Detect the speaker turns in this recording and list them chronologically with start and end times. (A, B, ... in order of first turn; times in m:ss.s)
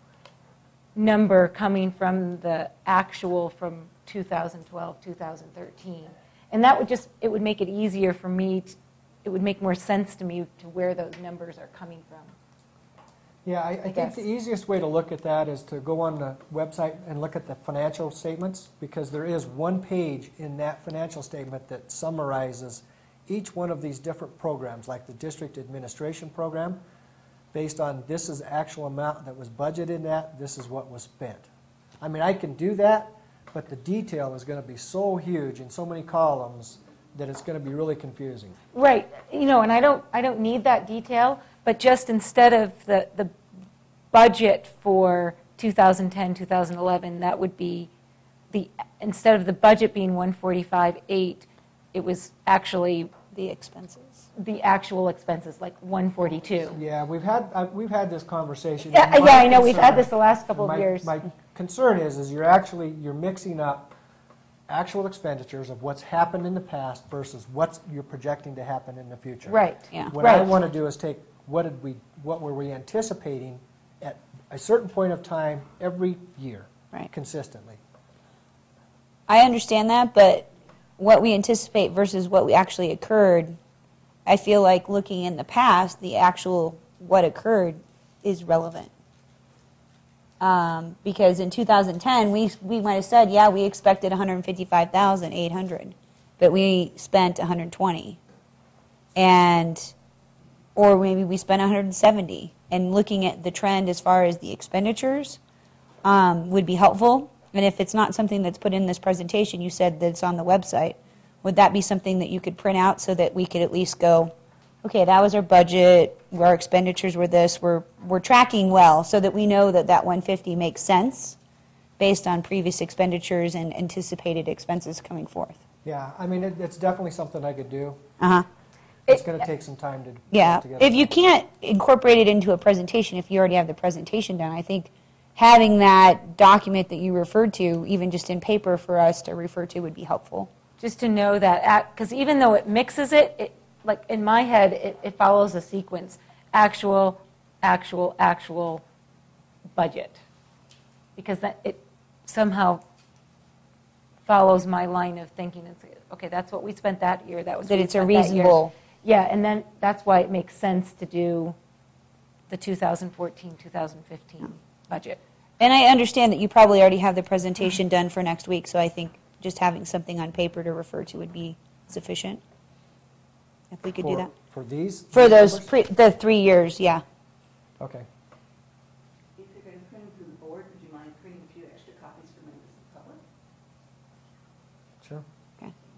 0:01.0-0:12.3 A
0:13.4-0:26.8 B
0:13.8-0:14.2 A
0:27.5-0:31.5 B
0:32.0-0:38.6 B
0:38.7-0:43.3 A
0:44.1-0:47.9 A
0:48.5-0:53.1 A
0:53.3-0:54.2 C
0:54.4-0:56.8 A
0:56.7-1:03.9 B
0:58.9-1:01.1 A
1:04.7-1:17.8 B
1:09.5-1:10.5 A
1:19.3-1:23.6 C
1:24.2-1:28.9 C
1:30.4-1:38.2 C
1:39.2-1:39.9 C
1:40.8-1:45.4 C
1:46.0-2:01.4 C
2:02.0-2:05.6 C
2:05.8-2:08.0 B
2:08.2-2:08.5 C
2:09.1-2:11.0 B
2:10.3-2:20.5 C
2:20.8-2:28.8 A
2:29.7-2:30.2 A
2:31.2-2:32.8 A
2:34.2-2:41.6 A
2:37.7-2:38.7 C
2:42.5-2:45.2 A
2:45.6-2:52.4 C
2:53.7-2:54.3 C
2:54.0-2:55.7 B
2:55.1-2:57.0 C
2:57.8-2:58.0 B
2:59.4-3:03.2 D